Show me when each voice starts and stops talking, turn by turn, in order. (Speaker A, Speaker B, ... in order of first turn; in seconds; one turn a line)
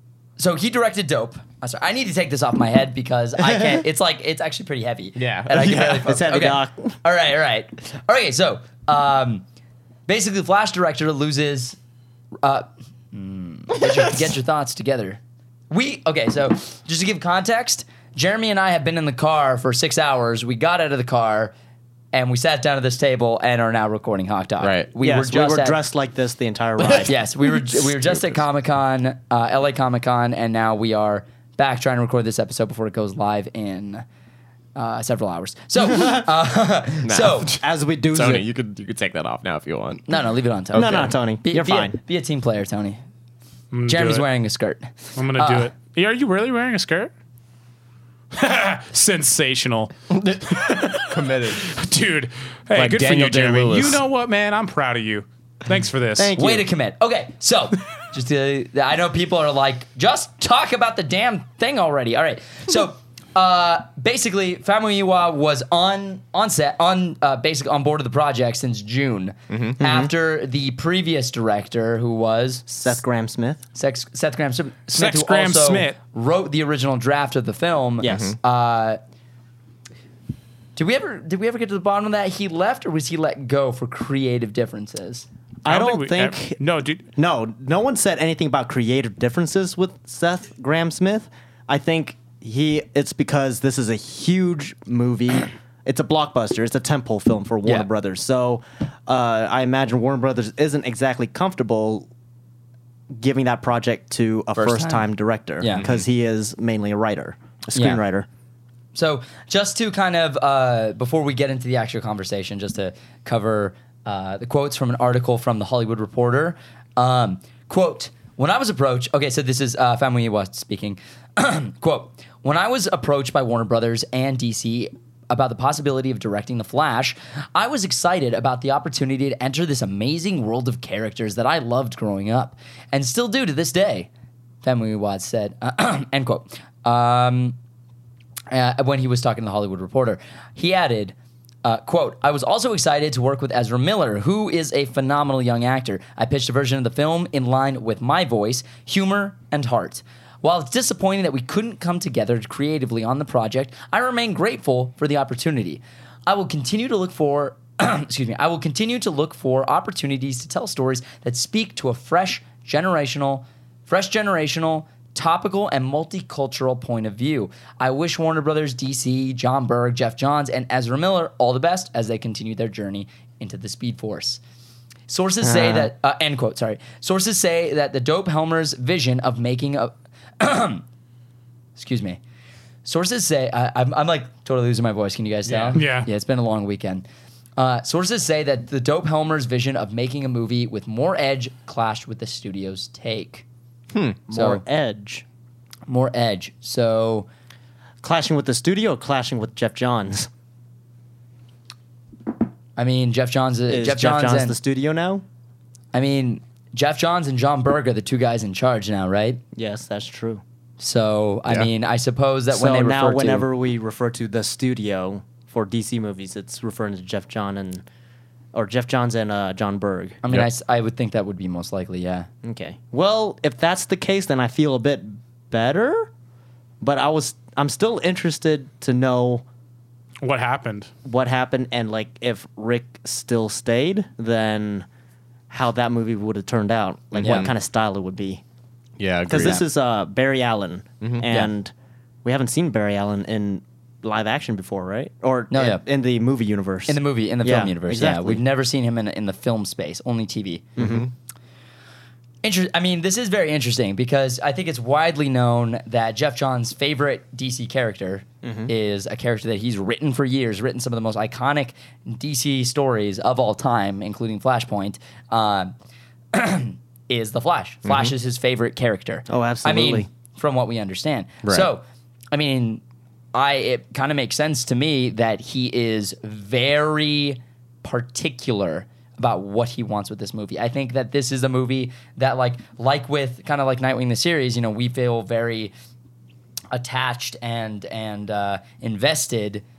Speaker A: 0.4-9.4
Speaker B: 3.4-3.8
Speaker C: 5.2-6.0
Speaker B: 5.5-7.0
Speaker A: 10.1-11.8
Speaker A: 12.4-21.5
Speaker C: 13.8-14.2
Speaker A: 22.1-25.8
Speaker C: 24.6-24.9
Speaker B: 25.0-27.1
Speaker C: 26.8-27.1
Speaker A: 27.0-34.0
Speaker C: 27.6-28.4
Speaker A: 34.8-37.5
Speaker B: 35.9-36.2
Speaker C: 37.0-40.2
Speaker B: 37.6-38.5
Speaker A: 40.1-43.0
Speaker C: 40.7-41.1
Speaker B: 40.7-42.0
Speaker D: 43.7-44.3
Speaker A: 43.9-45.7
Speaker D: 45.2-47.1
Speaker D: 48.3-49.9
Speaker C: 50.1-51.7
Speaker D: 50.5-56.3
Speaker C: 52.7-54.0
Speaker B: 56.2-56.7
Speaker A: 56.3-72.7
Speaker C: 69.5-69.8
Speaker B: 69.8-70.1
Speaker B: 72.7-73.6
Speaker A: 73.8-79.0
Speaker D: 74.9-76.0
Speaker B: 78.0-78.4
Speaker C: 78.1-78.3
Speaker A: 80.8-85.3
Speaker B: 85.6-86.6
Speaker D: 85.7-87.0
Speaker B: 87.2-102.1
Speaker B: 103.1-108.3
Speaker A: 104.6-105.9
Speaker C: 105.7-106.0
Speaker A: 107.8-108.0
Speaker A: 108.9-134.1
Speaker A: 134.6-137.6
Speaker A: 138.5-174.4
Speaker A: 175.1-180.8
Speaker B: 175.4-175.9
Speaker A: 181.8-182.2
Speaker A: 182.8-187.1
Speaker D: 185.5-186.1
Speaker A: 187.6-193.4
Speaker C: 193.9-194.2
Speaker B: 194.3-195.2
Speaker A: 194.3-194.6
Speaker A: 195.9-197.3
Speaker B: 198.0-200.3
Speaker A: 202.8-204.6
Speaker B: 203.7-205.2
Speaker A: 205.9-209.4
Speaker B: 209.6-210.4
Speaker A: 210.8-213.5
Speaker B: 212.5-217.8
Speaker B: 218.5-220.2
Speaker A: 220.2-222.3
Speaker B: 222.4-226.1
Speaker B: 226.8-229.4
Speaker D: 230.2-230.9
Speaker B: 231.1-234.9
Speaker B: 235.5-238.4
Speaker C: 237.1-237.5
Speaker A: 237.2-237.5
Speaker C: 239.0-239.6
Speaker B: 239.3-241.7
Speaker C: 241.0-241.3
Speaker B: 242.2-248.4
Speaker A: 245.5-245.8
Speaker A: 246.9-250.8
Speaker B: 250.8-251.1
Speaker C: 250.8-251.1
Speaker A: 252.4-265.8
Speaker B: 258.4-258.7
Speaker A: 266.3-272.8
Speaker C: 267.9-268.1
Speaker B: 269.3-270.1
Speaker C: 271.4-271.7
Speaker A: 273.3-285.7
Speaker A: 286.7-289.6